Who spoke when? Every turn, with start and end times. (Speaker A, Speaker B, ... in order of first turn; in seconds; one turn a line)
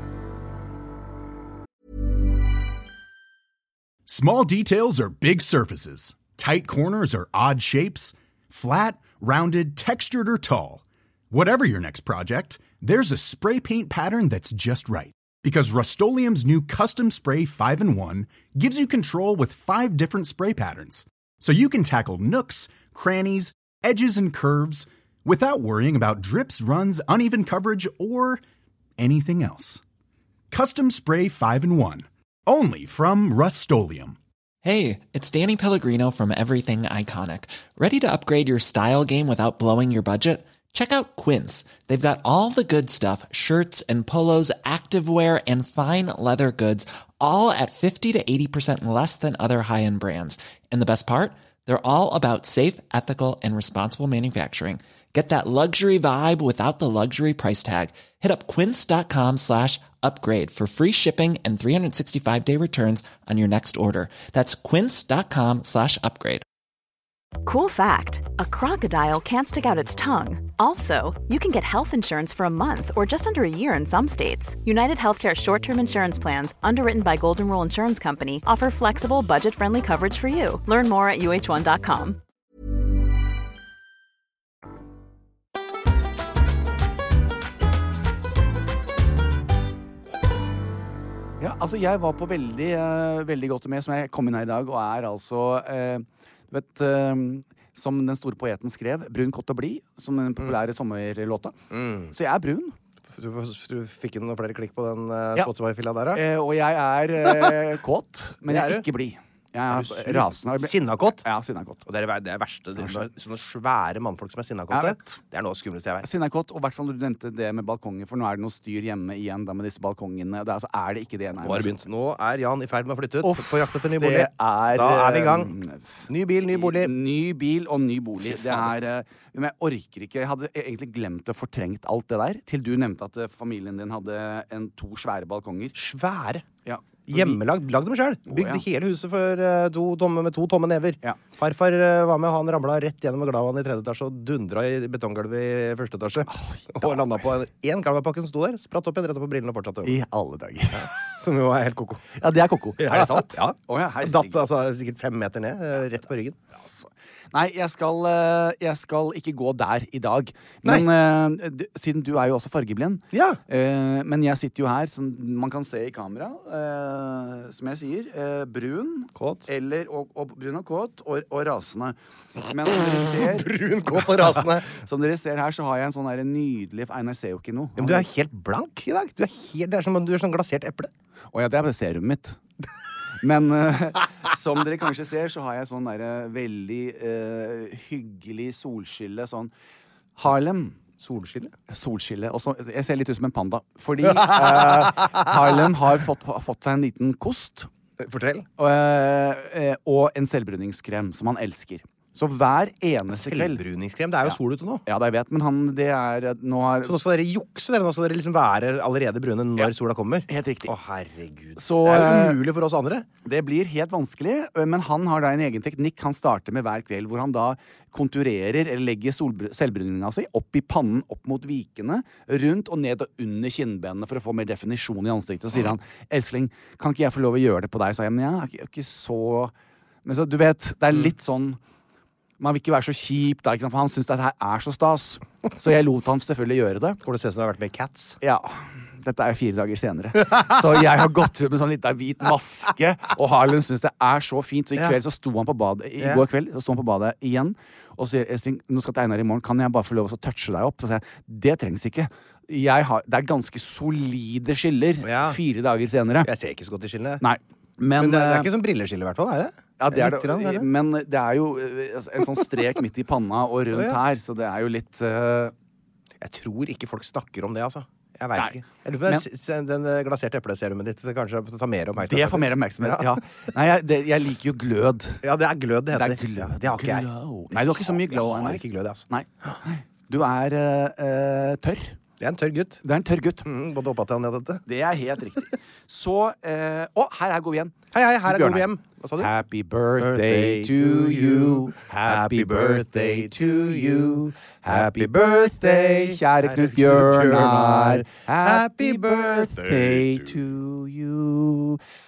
Speaker A: 4.1-28.4
Speaker A: 29.0-29.8
Speaker A: 30.5-34.2
Speaker B: 34.6-66.4
Speaker C: 67.4-82.2
Speaker D: 91.4-101.5
Speaker E: 101.7-102.1
Speaker D: 102.1-102.8
Speaker E: 103.1-106.2
Speaker D: 106.1-111.8
Speaker E: 107.2-107.5
Speaker E: 108.5-108.9
Speaker E: 109.7-111.2
Speaker E: 111.8-116.1
Speaker D: 112.8-113.1
Speaker D: 114.7-115.2
Speaker D: 116.0-121.8
Speaker E: 121.4-125.5
Speaker D: 123.2-135.7
Speaker E: 126.1-126.9
Speaker E: 128.2-128.7
Speaker E: 135.7-136.4
Speaker D: 136.6-137.4
Speaker E: 137.1-150.0
Speaker D: 138.3-138.6
Speaker D: 146.3-147.1
Speaker D: 149.8-150.9
Speaker E: 150.7-152.1
Speaker D: 152.1-154.4
Speaker E: 152.8-156.4
Speaker D: 156.6-178.1
Speaker E: 163.1-163.4
Speaker E: 169.2-169.5
Speaker E: 172.9-174.8
Speaker E: 177.8-180.9
Speaker D: 181.3-182.4
Speaker D: 183.2-189.5
Speaker D: 190.2-190.8
Speaker E: 191.0-191.5
Speaker D: 191.7-197.7
Speaker E: 194.1-195.3
Speaker E: 198.0-198.5
Speaker D: 198.6-203.6
Speaker E: 203.1-204.8
Speaker D: 204.2-206.9
Speaker E: 206.8-213.1
Speaker D: 210.3-210.7
Speaker D: 211.6-212.4
Speaker D: 213.2-229.5
Speaker D: 230.0-231.6
Speaker D: 232.4-237.0
Speaker E: 237.0-238.2
Speaker D: 238.2-256.3
Speaker E: 246.0-246.2
Speaker E: 255.0-255.4
Speaker E: 256.2-257.2
Speaker D: 257.2-258.5
Speaker E: 257.9-260.7
Speaker D: 259.8-265.5
Speaker E: 263.7-264.0
Speaker E: 266.2-273.2
Speaker D: 268.3-269.2
Speaker D: 272.0-275.2
Speaker E: 275.2-279.6
Speaker D: 275.9-282.0
Speaker E: 282.2-282.8
Speaker D: 282.8-283.4
Speaker E: 283.4-284.6
Speaker D: 284.7-301.8
Speaker E: 287.9-289.3
Speaker E: 290.0-300.4